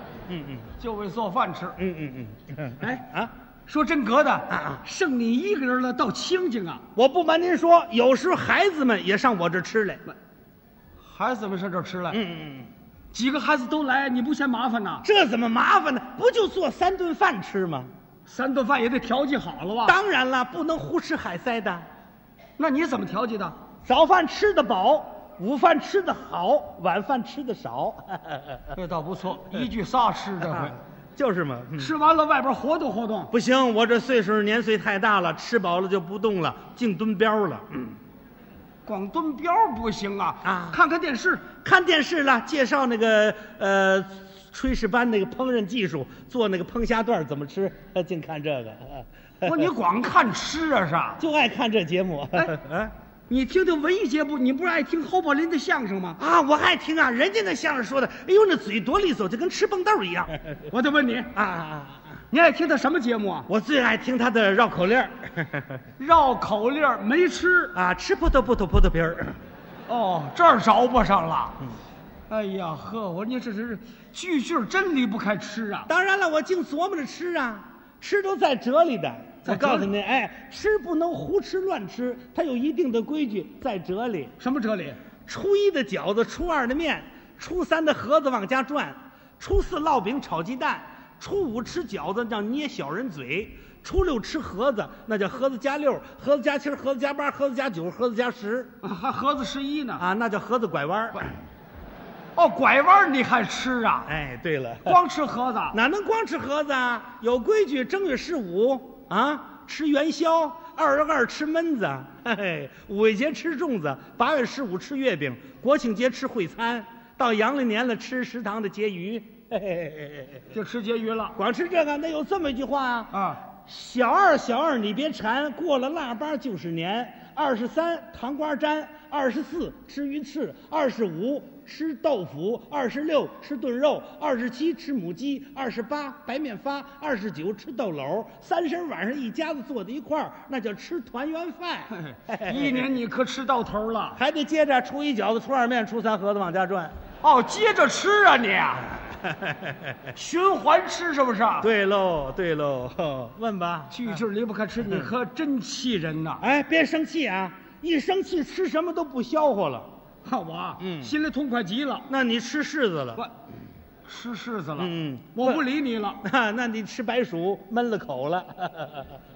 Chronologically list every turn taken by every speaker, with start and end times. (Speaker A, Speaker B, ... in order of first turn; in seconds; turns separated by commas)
Speaker A: 0.3-0.7, Speaker B: 0.8-1.8, Speaker A: 1.8-3.3, Speaker B: 3.7-6.8, Speaker A: 4.5-4.8, Speaker A: 7.0-10.0, Speaker B: 11.0-12.2, Speaker A: 12.1-12.7, Speaker B: 13.1-15.1, Speaker A: 15.0-17.9, Speaker B: 18.2-20.0, Speaker A: 19.8-21.9, Speaker B: 22.6-23.6, Speaker A: 23.8-28.7, Speaker B: 28.7-30.8, Speaker A: 30.5-31.9, Speaker B: 31.8-33.3, Speaker A: 33.3-38.0, Speaker B: 38.8-41.5, Speaker A: 40.4-40.8, Speaker A: 41.6-49.0, Speaker B: 49.4-51.2, Speaker A: 51.2-52.9, Speaker B: 53.3-56.2, Speaker A: 56.2-60.6, Speaker B: 60.7-61.3, Speaker A: 61.3-62.0, Speaker B: 62.3-63.5, Speaker A: 63.5-65.8, Speaker B: 66.0-67.8, Speaker A: 67.7-69.4, Speaker B: 69.9-71.6, Speaker B: 72.3-75.9, Speaker A: 75.9-84.3, Speaker B: 79.4-79.9, Speaker B: 84.4-85.0, Speaker A: 85.3-98.7, Speaker B: 98.8-100.0, Speaker A: 100.0-101.3, Speaker B: 102.3-104.1, Speaker A: 104.1-105.0, Speaker B: 104.8-105.8, Speaker A: 105.7-120.5, Speaker B: 120.5-121.3, Speaker A: 121.3-142.9, Speaker B: 123.1-123.4, Speaker B: 141.9-144.2, Speaker A: 144.2-146.9, Speaker B: 147.2-148.9, Speaker B: 150.1-151.7, Speaker A: 151.6-154.2, Speaker B: 153.9-156.4, Speaker A: 156.4-159.9, Speaker B: 160.2-162.1, Speaker A: 160.8-161.1, Speaker A: 162.1-163.2, Speaker B: 164.1-166.2, Speaker A: 164.8-165.6, Speaker A: 166.2-169.1